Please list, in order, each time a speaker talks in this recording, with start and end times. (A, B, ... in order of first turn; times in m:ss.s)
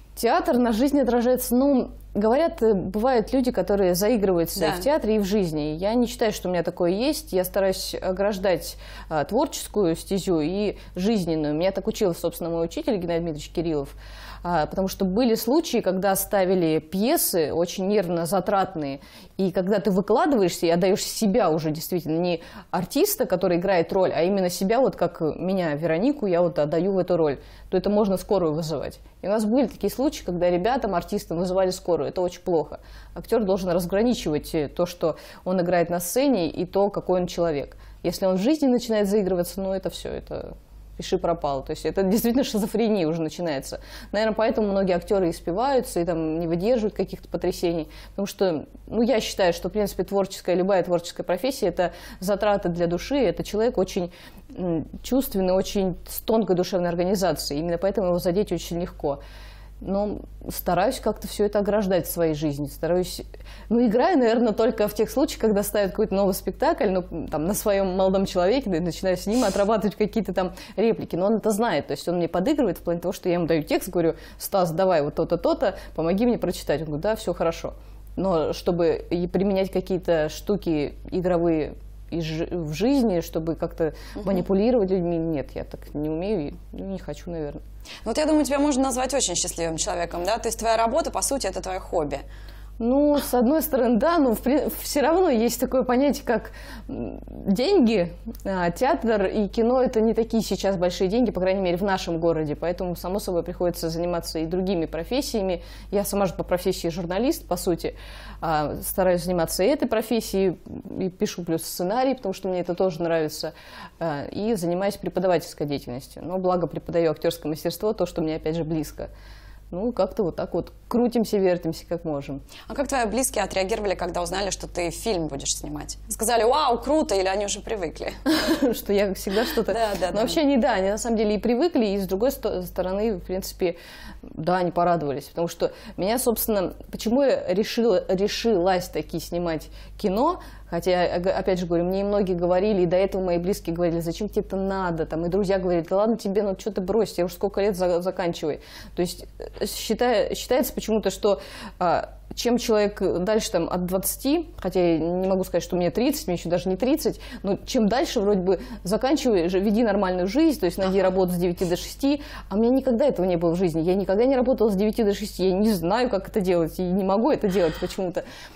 0:00.2-0:59.2 A
0:04.6-0:04.8 B
0:59.8-1:27.6 A
1:28.0-1:32.2 B
1:32.8-1:59.1 A
1:59.7-2:02.4 A
2:02.7-2:08.2 B
2:08.2-2:13.8 A
2:09.6-2:10.4 B
2:14.3-2:48.2 A